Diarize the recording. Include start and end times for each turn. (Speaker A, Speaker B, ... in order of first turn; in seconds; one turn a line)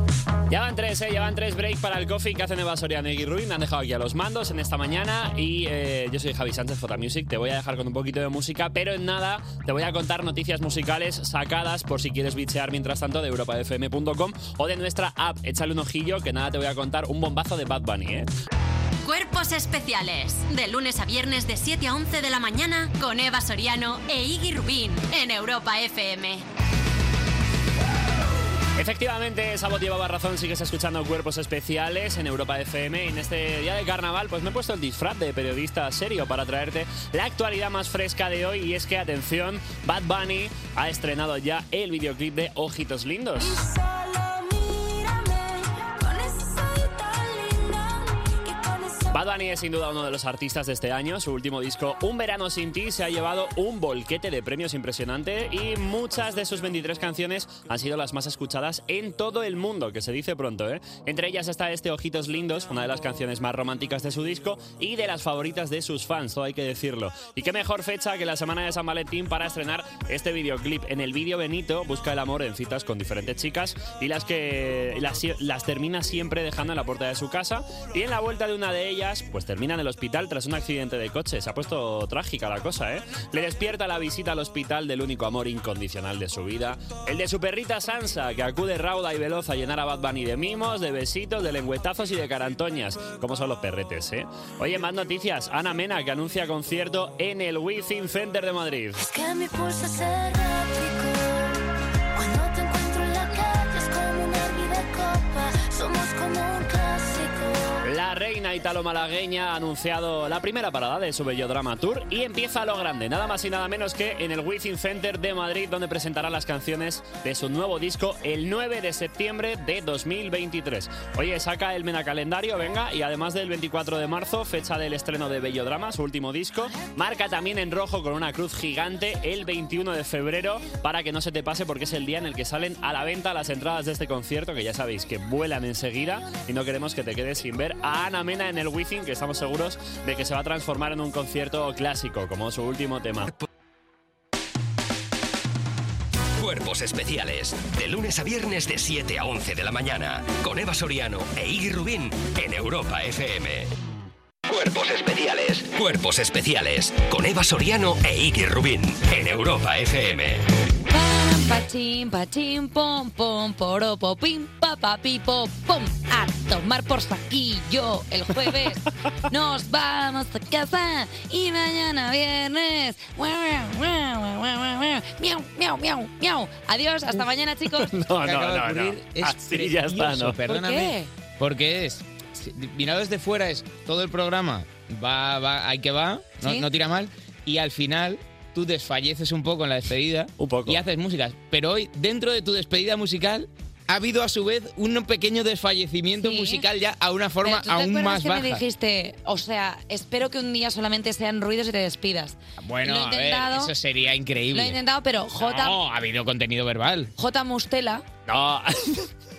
Speaker A: 0.5-18.3
Speaker B: 19.0-26.4
Speaker A: 28.7-43.6
Speaker C: 43.4-49.2
Speaker A: 49.1-99.0
Speaker C: 99.0-101.6
Speaker C: 102.1-107.8
Speaker A: 107.8-143.3
Speaker D: 146.4-153.7
Speaker D: 154.5-160.4
Speaker E: 160.9-177.9
Speaker A: 177.7-180.4
Speaker F: 178.2-198.6
Speaker E: 180.4-181.1
Speaker A: 190.4-190.8
Speaker E: 196.2-196.6
Speaker E: 197.4-203.7
Speaker F: 202.6-204.8
Speaker E: 204.5-205.8
Speaker F: 205.4-207.1
Speaker E: 207.2-208.0
Speaker A: 208.3-209.1